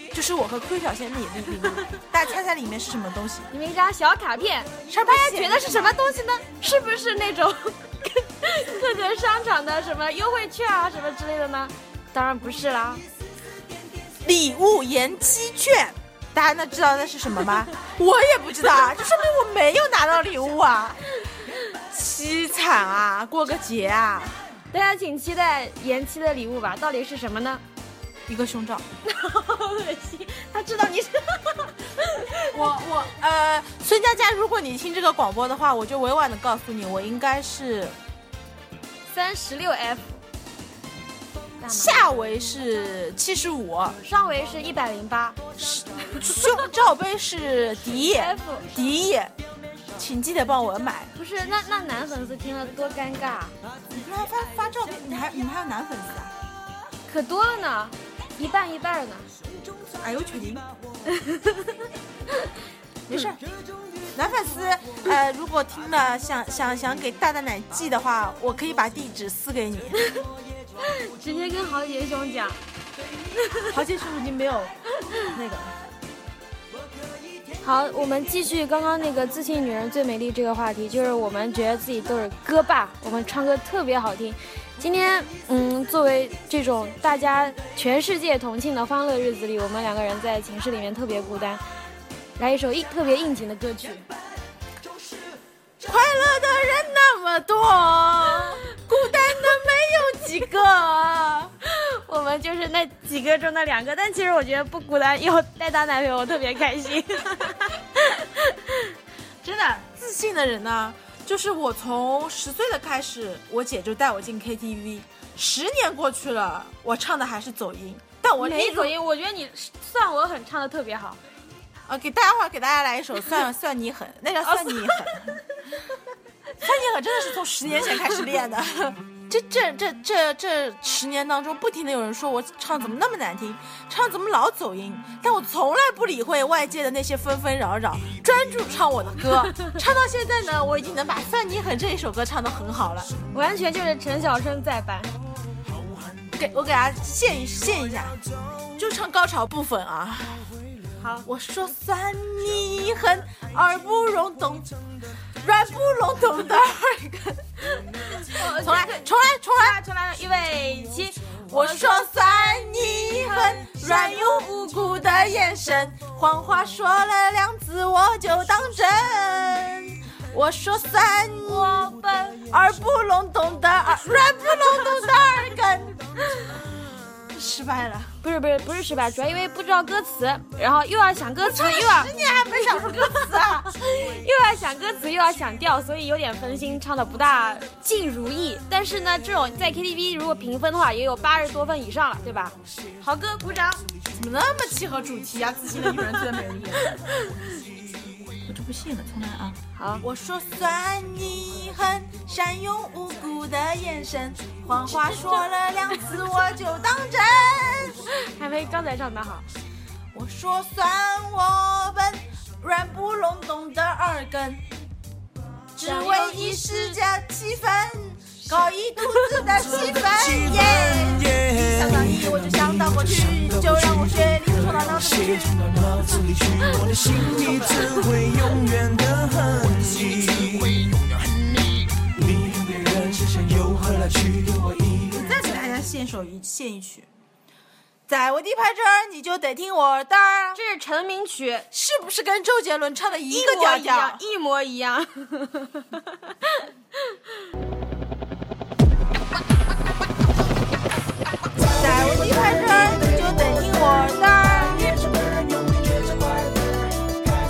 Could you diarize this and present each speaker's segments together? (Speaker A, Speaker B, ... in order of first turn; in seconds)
Speaker A: 0.1-3.5, 4.9-6.0, 14.2-21.0, 21.9-24.3, 28.3-28.8, 32.5-38.0, 41.7-44.0, 45.6-49.3, 50.0-51.1, 53.9-56.3, 60.0-60.7, 63.1-63.4, 64.1-70.0, 73.7-75.7, 95.8-101.5, 109.4-118.9, 121.9-125.4, 126.6-143.1, 146.3-148.2, 148.8-150.5, 151.2-154.7, 155.4-157.4, 158.3-159.8, 161.5-171.9, 172.5-176.0, 177.3-178.1, 181.4-183.7, 194.1-196.9, 198.4-208.1, 210.1-214.6, 215.7-228.1, 235.0-237.1, 238.1-240.6, 241.7-244.2, 251.7-255.7
Speaker B: 3.5-13.0, 24.7-27.6, 29.0-32.6, 39.1-40.2, 41.6-42.1, 44.0-45.4, 46.1-46.4, 48.0-48.6, 51.1-53.5, 57.1-59.3, 61.1-61.8, 70.8-72.6, 73.4-73.7, 77.6-91.6, 92.4-94.0, 101.6-108.9, 118.4-121.2, 124.5-125.3, 143.3-145.1, 151.0-151.3, 158.1-162.1, 163.2-164.6, 171.4-172.4, 178.2-182.1, 182.6-193.8, 199.8-200.0, 205.1-205.4, 208.1-209.5, 215.8-217.0, 240.5-241.7, 243.3-247.2
Speaker C: 226.6-230.7, 232.2-235.0